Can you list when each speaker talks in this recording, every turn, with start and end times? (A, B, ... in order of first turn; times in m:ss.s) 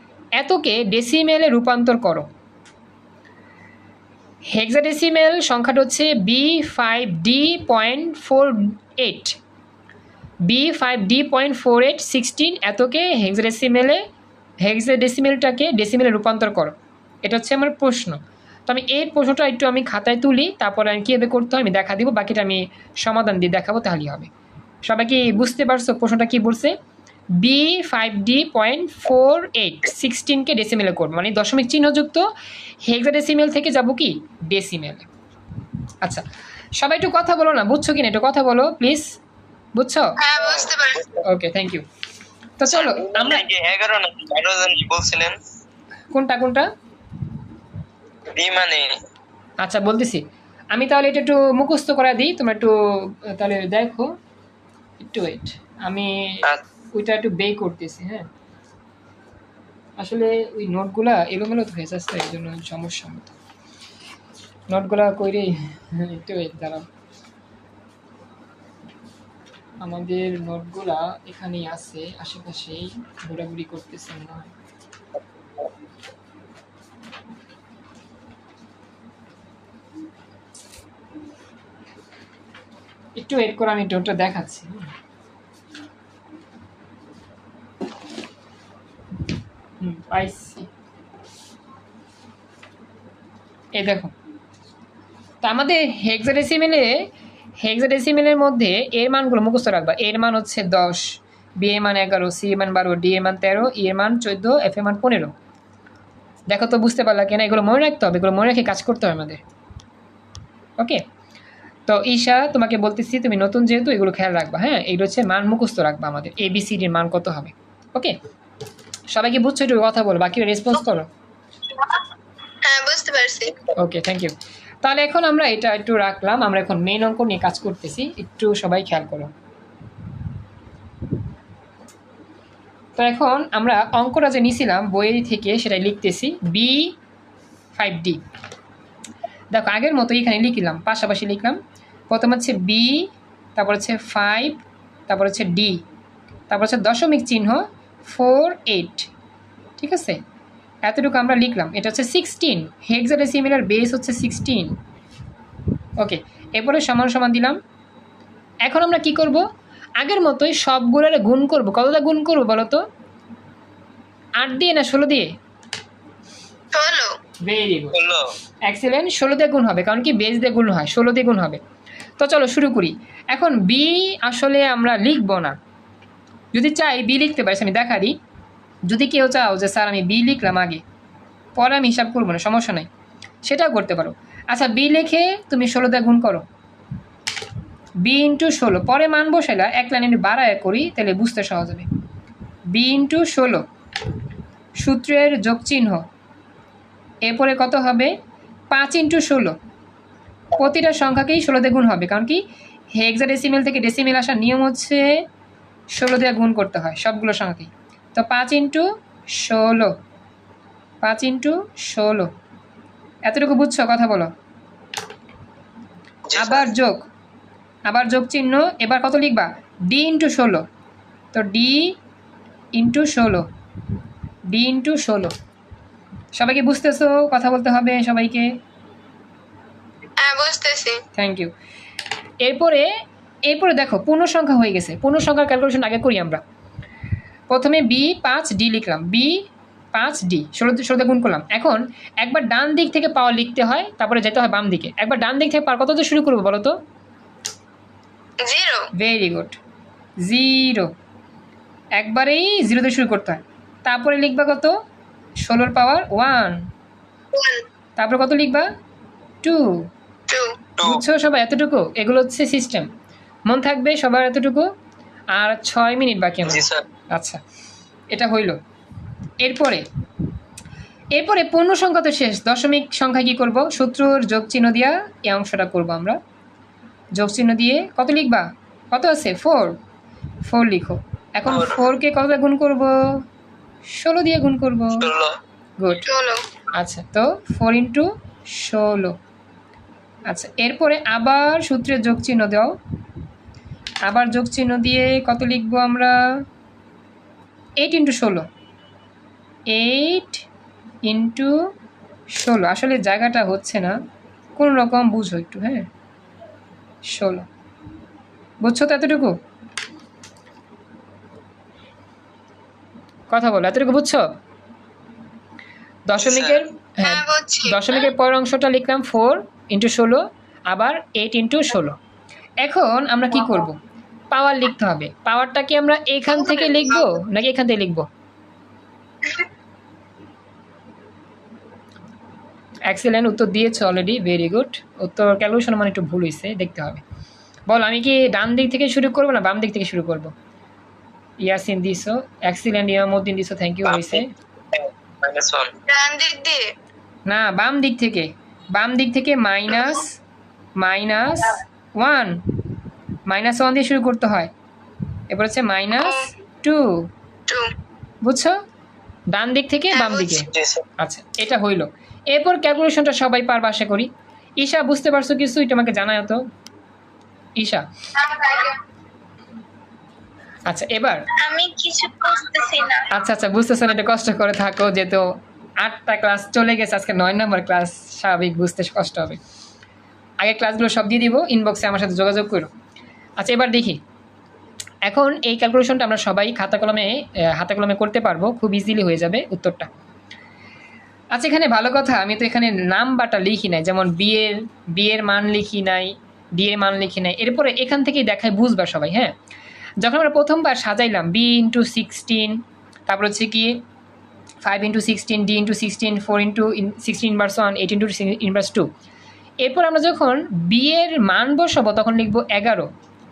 0:00.4-0:02.3 A
0:04.5-0:09.4 A
0:10.5-0:14.0 A
0:14.6-0:24.3 A
0:24.9-0:26.8 A
0:27.4-0:32.3 A
0:32.8-0:35.1 A
0:36.8-0:39.2 A
0:39.8-0:40.2 A
0:40.2-0:41.1 B
0:40.4-0:41.2 C
0:41.2-0:41.8 A
0:42.6-0:43.4 A
0:42.7-0:45.4 C
0:46.1-0:46.7 A
0:48.3-0:49.0 C
0:49.6-0:54.1 A
0:55.0-0:58.3 A
1:00.0-1:03.4 A
1:04.7-1:06.9 A
1:09.8-1:14.5 A
1:23.2-1:24.9 A
1:29.8-1:30.7 A
1:33.8-1:34.1 A
1:35.4-1:37.0 A
1:37.6-1:45.3 A
1:46.5-1:49.4 A
1:51.9-1:58.2 A
1:59.1-2:01.1 A
2:02.6-2:03.6 B
2:03.8-2:09.3 A
2:13.0-2:16.9 A
2:17.8-2:18.2 A
2:19.5-2:21.6 A
2:22.1-2:25.8 A
2:26.5-2:29.1 A
2:29.8-2:30.2 A
2:30.8-2:34.8 A
2:36.0-2:37.6 A
2:38.6-2:39.4 A
2:40.0-2:42.8 A
2:44.4-2:45.3 A
2:46.7-2:47.2 B
2:47.4-2:48.0 A
2:47.9-2:48.3 C
2:48.7-2:51.6 A
2:52.2-2:55.6 A
2:56.5-2:58.1 A
2:58.9-3:00.8 A
3:01.6-3:02.9 A
3:03.4-3:06.4 A
3:08.0-3:11.9 A
3:12.7-3:13.6 A
3:14.8-3:16.0 A
3:17.2-3:18.1 A
3:18.7-3:19.6 A
3:20.5-3:22.4 A
3:23.0-3:25.2 A
3:25.9-3:30.0 A
3:31.0-3:32.3 A
3:33.3-3:34.3 A
3:36.3-3:36.7 C
3:36.4-3:37.0 A
3:37.9-3:40.6 A
3:41.3-3:42.0 A
3:42.8-3:43.5 A
3:44.5-3:45.3 A
3:46.4-3:48.5 A
3:50.2-3:51.0 B
3:51.2-3:51.5 A
3:52.4-3:52.9 A
3:53.5-3:56.4 A
3:57.5-4:06.8 A
4:08.4-4:08.9 B
4:09.0-4:09.6 A
4:10.2-4:10.9 A
4:12.0-4:14.7 A
4:15.4-4:16.7 A
4:17.3-4:17.6 B
4:18.0-4:18.7 A
4:19.4-4:19.9 A
4:20.3-4:20.6 B
4:20.8-4:21.0 C
4:20.8-4:22.9 A
4:23.5-4:24.7 A
4:25.3-4:27.4 A
4:26.4-4:26.8 C
4:28.1-4:28.6 A
4:29.4-4:29.8 A
4:31.1-4:36.2 A
4:37.2-4:39.8 A
4:40.5-4:43.2 A
4:41.5-4:41.8 C
4:44.0-4:45.1 A
4:45.0-4:45.4 C
4:45.8-4:46.1 A
4:46.0-4:46.4 B
4:46.8-4:49.2 A
4:50.3-4:52.8 A
4:54.1-4:56.4 A
4:57.8-4:58.5 A
4:59.7-5:00.5 A
5:01.1-5:01.6 A
5:02.3-5:04.0 A
5:04.6-5:05.9 A
5:07.1-5:07.5 A
5:08.6-5:09.4 A
5:13.3-5:14.2 A
5:16.1-5:22.0 A
5:16.2-5:16.6 C
5:17.0-5:18.1 B
5:22.6-5:23.8 A
5:24.3-5:28.1 A
5:26.3-5:27.2 B
5:32.9-5:37.0 A
5:37.7-5:40.3 A
5:41.4-5:44.3 A
5:43.8-5:45.7 C
5:45.9-5:46.7 B
5:47.3-5:50.2 A
5:50.8-5:52.4 A
5:53.3-5:54.5 A
5:55.3-5:57.1 A
5:57.5-5:57.7 B
5:58.2-5:58.6 A
5:59.3-6:06.4 A
5:59.9-6:00.5 B
6:00.5-6:00.8 C
6:07.6-6:07.9 A
6:08.2-6:08.8 B
6:10.7-6:11.3 A
6:11.3-6:13.1 B
6:13.1-6:19.4 A
6:20.4-6:22.7 A
6:23.4-6:24.0 A
6:25.1-6:29.9 A
6:31.3-6:39.3 A
6:40.0-6:43.8 A
6:44.6-6:48.9 A
6:49.6-6:52.9 A